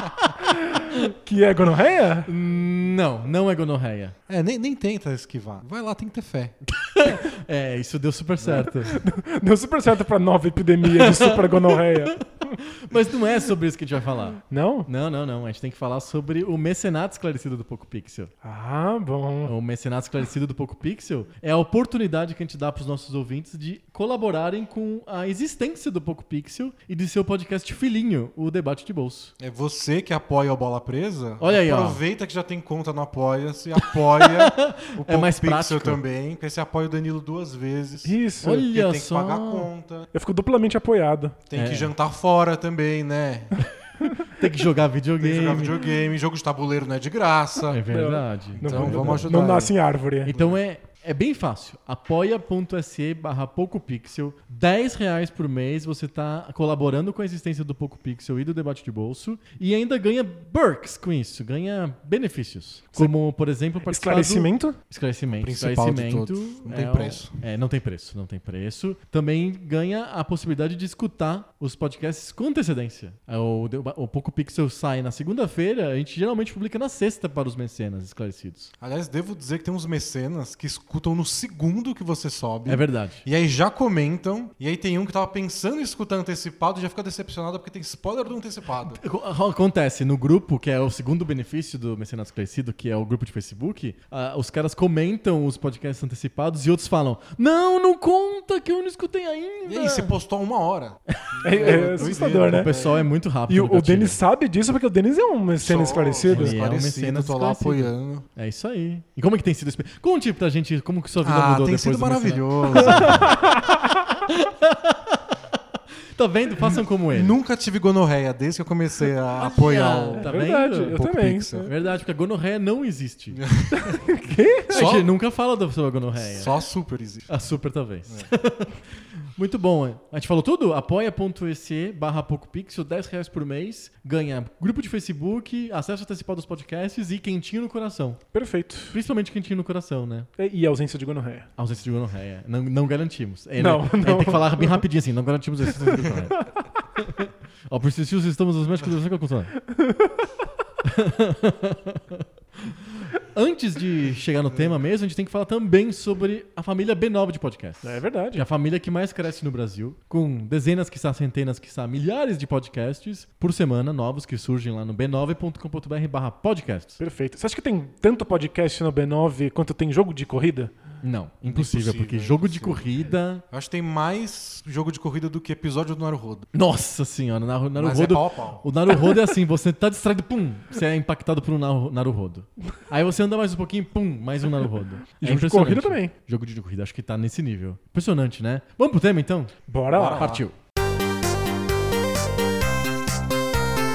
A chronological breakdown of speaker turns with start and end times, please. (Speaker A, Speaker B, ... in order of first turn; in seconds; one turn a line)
Speaker A: 0.4-2.3
Speaker B: 2.3-4.2
Speaker C: 4.3-6.7
Speaker B: 6.8-9.0
Speaker A: 8.7-12.6
Speaker B: 10.8-18.3
Speaker A: 14.5-14.9
Speaker A: 18.4-19.5
Speaker B: 19.4-29.3
Speaker C: 29.4-40.1
Speaker B: 31.4-32.0
Speaker B: 33.8-36.0
Speaker A: 38.0-38.6
Speaker B: 38.4-39.7
Speaker A: 40.1-41.4
Speaker C: 41.5-43.7
Speaker B: 41.5-41.9
Speaker B: 44.2-45.9
Speaker C: 45.2-47.8
Speaker B: 47.6-49.3
Speaker A: 47.9-50.3
Speaker C: 48.6-50.6
Speaker B: 50.3-78.7
Speaker A: 63.9-64.8
Speaker C: 65.3-67.4
Speaker C: 78.8-89.0
Speaker B: 82.7-83.2
Speaker B: 88.8-100.1
Speaker C: 99.7-103.1
Speaker B: 101.1-104.2
Speaker A: 101.4-102.7
Speaker A: 103.5-106.6
Speaker C: 105.6-108.3
Speaker B: 106.3-113.5
Speaker C: 111.2-113.3
Speaker A: 112.8-113.8
Speaker B: 114.2-117.4
Speaker C: 117.1-121.7
Speaker B: 119.5-121.0
Speaker A: 120.1-121.7
Speaker B: 121.7-123.4
Speaker C: 123.3-124.0
Speaker A: 123.7-124.8
Speaker C: 124.7-125.1
Speaker B: 124.7-126.5
Speaker C: 126.2-127.3
Speaker B: 127.3-138.2
Speaker A: 138.3-139.0
Speaker B: 138.9-140.3
Speaker A: 140.4-141.5
Speaker B: 141.6-146.4
Speaker A: 143.6-144.8
Speaker B: 146.9-149.5
Speaker B: 150.8-167.0
Speaker A: 157.8-158.4
Speaker A: 167.0-170.7
Speaker B: 171.0-173.4
Speaker C: 171.5-172.9
Speaker C: 173.5-176.5
Speaker B: 176.5-190.5
Speaker C: 177.8-178.7
Speaker A: 185.2-186.1
Speaker A: 189.7-190.4
Speaker C: 189.9-190.4